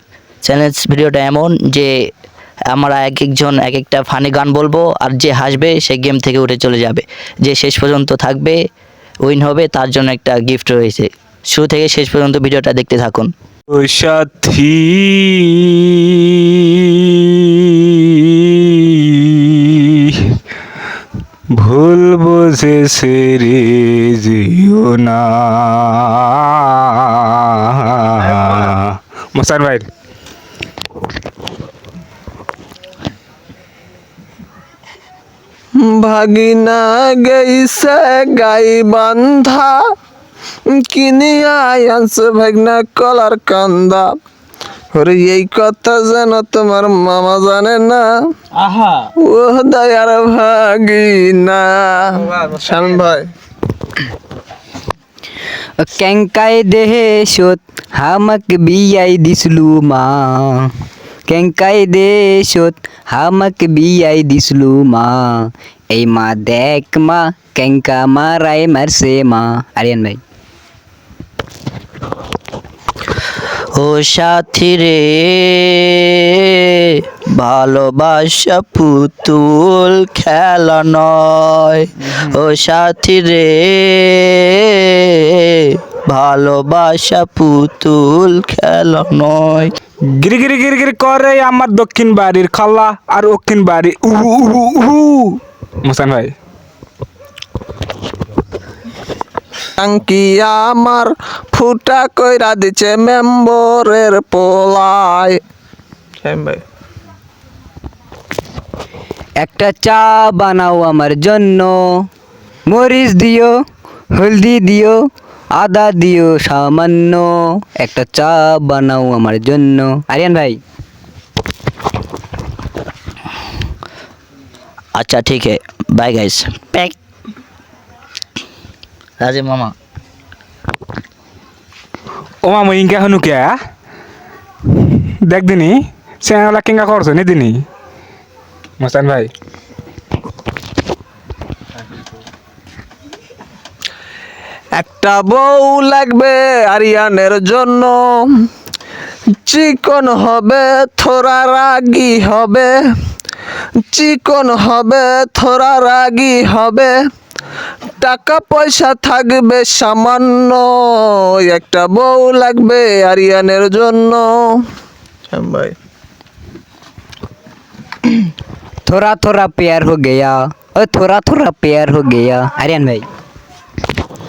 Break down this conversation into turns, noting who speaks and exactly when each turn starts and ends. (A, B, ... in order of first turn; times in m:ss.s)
0:00.4-0:01.9 A
0:02.7-0:08.6 A
0:09.2-0:13.3 A
0:13.7-0:20.3 B
0:21.6-0:29.9 B
0:35.8-0:39.8 C
0:40.7-0:44.1 C
0:44.9-0:48.2 C
0:49.2-0:53.3 C
0:55.8-1:00.7 D
1:01.3-1:10.2 D
1:13.8-1:29.7 A
1:30.2-1:36.3 B
1:39.8-1:45.4 C
1:46.2-1:46.6 C
1:49.4-1:51.8 D
1:52.7-1:53.6 D
1:54.2-1:55.0 D
1:55.6-2:00.6 D
2:05.0-2:06.9 A
2:09.2-2:09.7 A
2:12.4-2:13.6 B
2:14.7-2:17.6 B
2:18.8-2:19.3 B
2:24.7-2:28.4 C
2:29.4-2:32.8 C
2:33.9-2:37.0 C
2:38.0-2:44.6 C
2:45.3-2:45.8 C
2:48.8-2:53.1 D